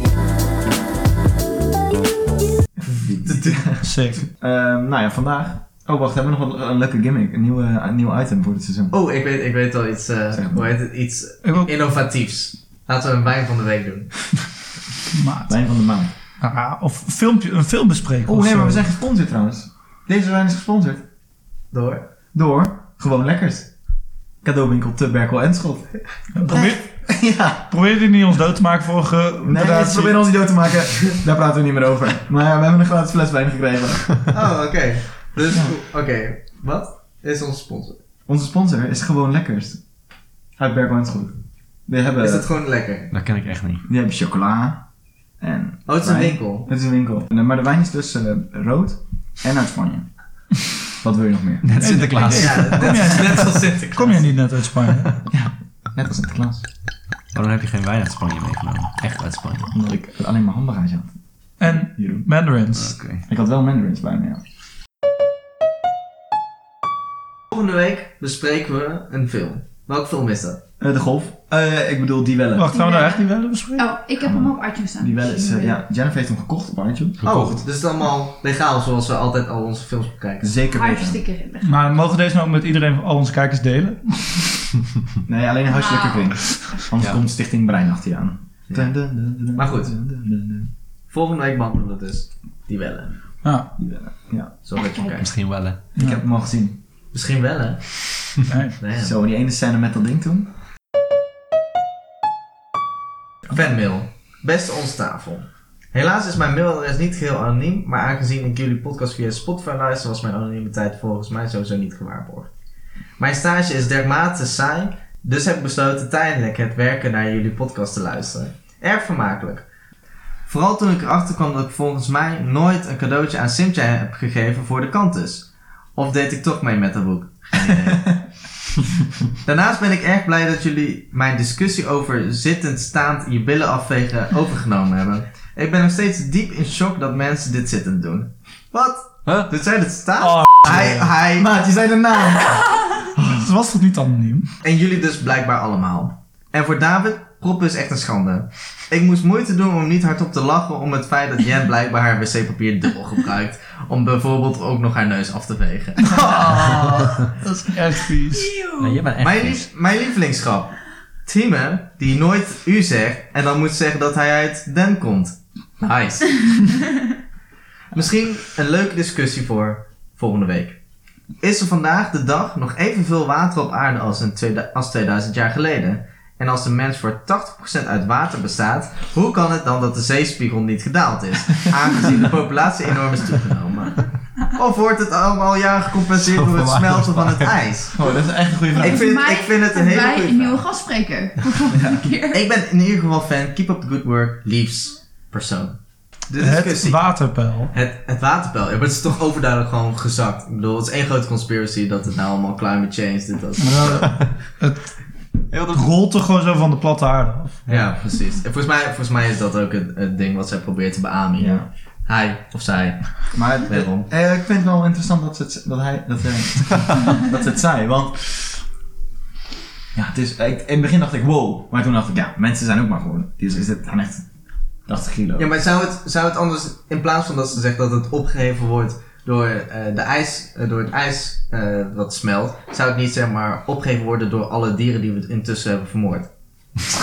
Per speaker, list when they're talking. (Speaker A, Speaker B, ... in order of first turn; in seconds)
Speaker A: 2.7-8.9, 10.3-10.7, 15.5-16.1, 18.2-21.0, 22.3-23.7, 24.4-27.6, 29.4-34.3, 38.3-39.8, 40.6-42.5, 43.9-44.8, 45.4-50.1, 51.0-51.7, 55.3-56.6, 59.7-62.2, 63.2-64.4, 70.8-72.7, 74.2-77.3, 80.4-81.2, 85.2-90.7, 93.8-94.6, 95.9-96.8, 98.9-100.5, 127.8-128.2, 141.3-143.4, 187.9-189.1, 191.7-192.1, 211.4-211.7, 213.3-218.6, 219.9-224.2, 224.9-225.5
Speaker B: 3.2-3.6, 8.9-14.3, 21.7-22.1, 34.3-38.0, 42.1-43.1, 45.9-46.7, 52.3-54.3, 67.5-70.6, 77.2-80.6, 89.5-89.9, 91.1-93.1, 94.7-95.3, 97.1-99.1, 103.5-112.5, 113.2-119.6, 120.5-128.2, 129.4-141.5, 144.6-156.9, 159.2-166.8, 167.9-170.8, 171.4-188.0, 188.8-190.6, 192.3-195.8, 196.3-197.0, 197.7-204.2, 207.7-214.1, 225.4-236.3
Speaker C: 3.8-4.3, 11.4-11.7, 15.1-15.6, 16.4-18.9, 26.3-27.0, 27.6-30.3, 51.8-55.1, 61.6-62.9, 72.5-73.9, 81.6-84.7, 93.4-93.7, 98.5-98.8, 140.3-141.0, 143.2-144.5, 156.1-158.5, 196.4-197.7, 203.6-204.9, 205.7-207.7
Speaker D: 43.1-43.8, 51.6-53.3, 57.3-59.7, 62.7-63.2, 77.2-77.6, 95.0-95.8, 158.8-159.7, 186.2-187.5, 205.5-205.8
Speaker E: 72.6-75.8, 80.7-81.8, 85.7-86.8, 94.7-95.3, 158.3-159.0, 188.7-192.4